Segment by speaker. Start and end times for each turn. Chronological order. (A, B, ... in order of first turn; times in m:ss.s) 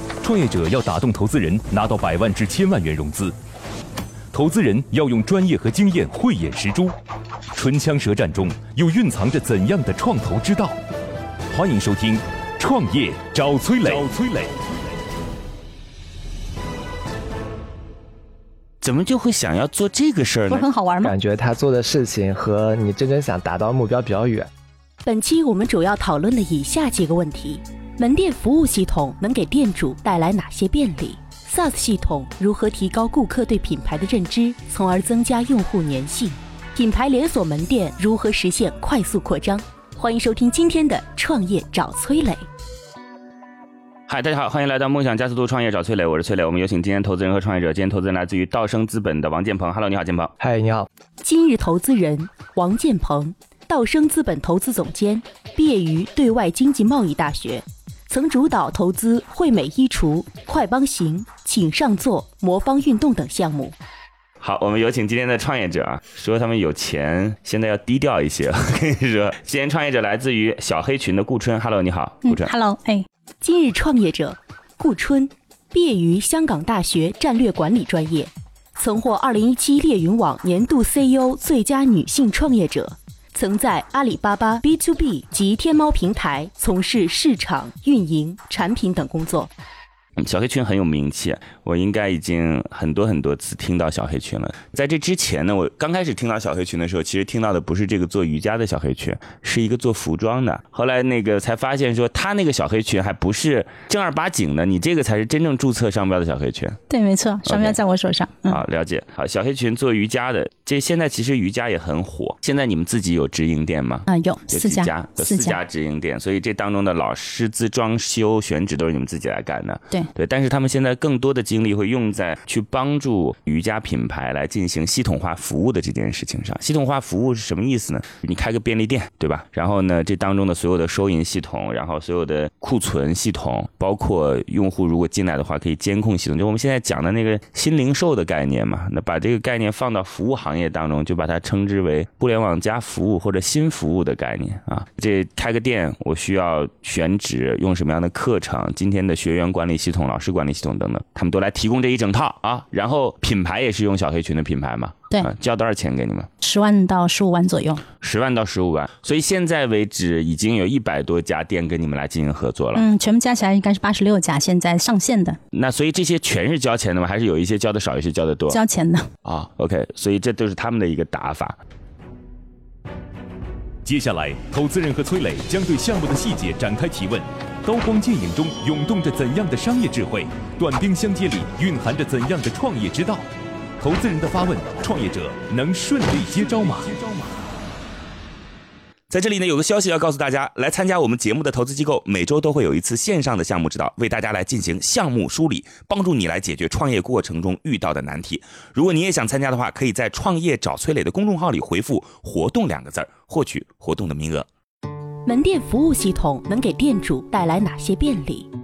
0:00.2-0:03.3 A
0:04.3-0:06.9 A
0:07.5-0:10.8 A
0:11.5-0:14.5 A
0:18.8-0:20.7 B
0:20.5-0:21.1 C
0:21.0-0:24.5 D
0:25.0-0:42.4 E
0:44.1-0:50.3 B
0:50.4-0:50.9 D
0:51.2-1:03.7 E
1:04.4-1:12.5 B
1:12.2-1:13.0 C
1:13.4-1:29.5 E
1:30.2-1:46.8 B
1:46.9-1:48.6 C
1:47.4-1:47.8 B
1:48.5-2:36.3 B
1:54.1-1:55.6 C
2:36.4-2:37.8 C
2:38.0-2:42.8 B
2:42.7-2:45.4 C
2:45.5-2:48.6 B
2:48.5-2:49.1 C
2:49.2-2:51.6 B
2:53.8-3:03.2 A
3:03.8-3:07.0 A
3:09.1-3:24.5 B
3:25.2-3:28.5 E